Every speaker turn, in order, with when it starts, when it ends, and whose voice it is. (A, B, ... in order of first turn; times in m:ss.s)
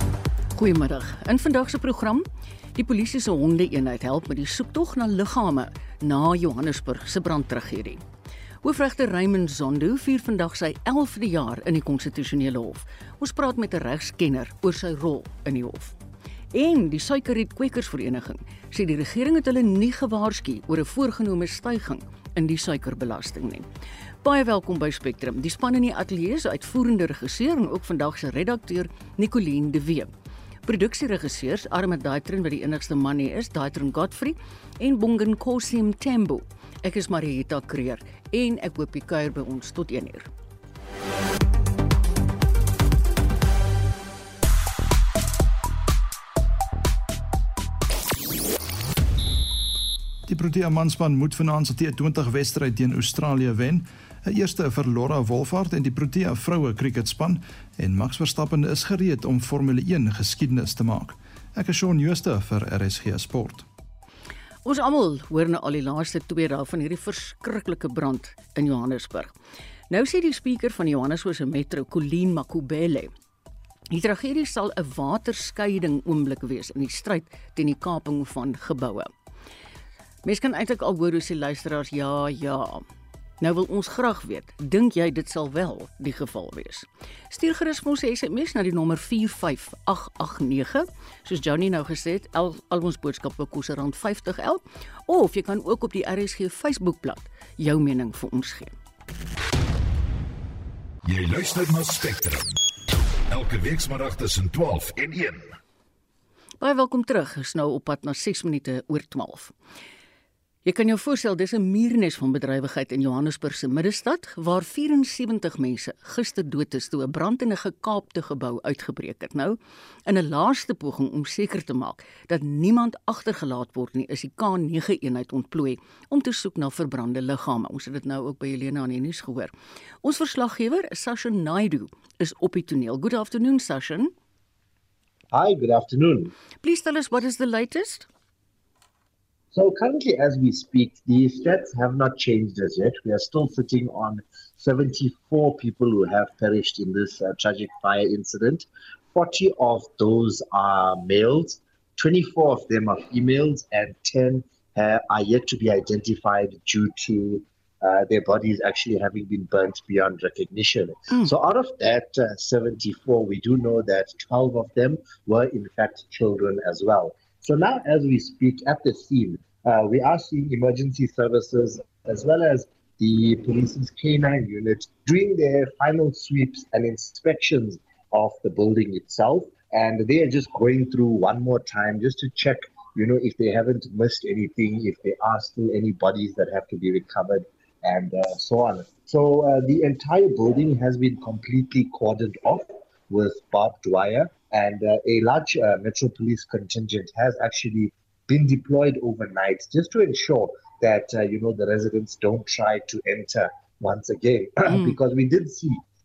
0:00.6-0:02.2 A
0:02.7-0:08.0 A
0:08.6-0:15.9 A
0:16.5-0:23.7 A
0:24.2-0:30.1 A
0:30.6-0:40.3 A
0:50.3-1:03.6 B
1:04.6-1:09.3 A
1:09.9-1:13.1 A
1:13.9-1:19.1 A
1:20.2-1:22.8 A
1:23.4-1:38.7 A
1:41.0-1:42.5 C
1:43.3-1:45.5 C
1:46.6-1:49.5 A
1:50.6-2:09.5 A
2:10.0-2:14.1 A
2:15.3-2:16.3 D
2:16.6-2:18.1 A
2:19.5-3:25.8 D
3:24.7-3:24.9 A